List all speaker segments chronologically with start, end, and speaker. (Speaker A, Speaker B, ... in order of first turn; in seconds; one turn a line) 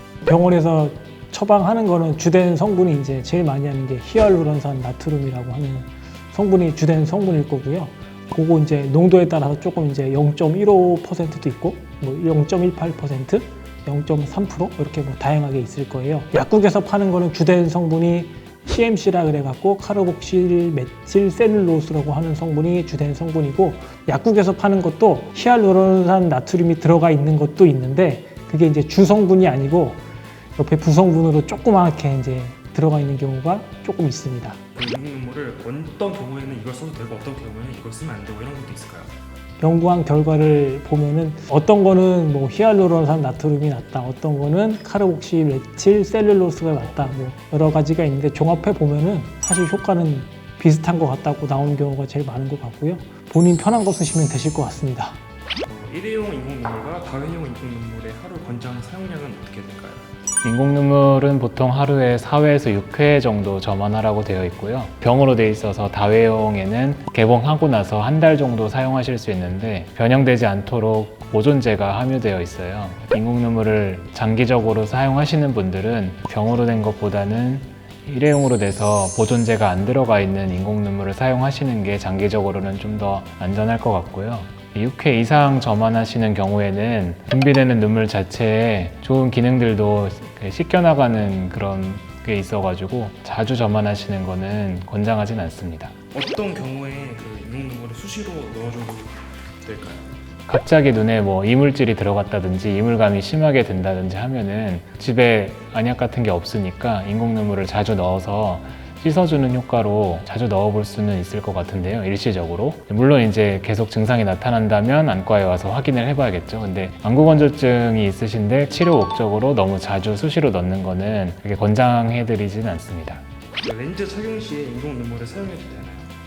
Speaker A: 0.2-30.0
Speaker A: 30.6-34.6
Speaker B: 34.7-39.1
Speaker A: 39.6-55.2
Speaker B: 55.6-60.0
Speaker C: 60.4-95.9
Speaker B: 96.1-100.0
Speaker C: 100.5-123.2
Speaker B: 123.6-126.1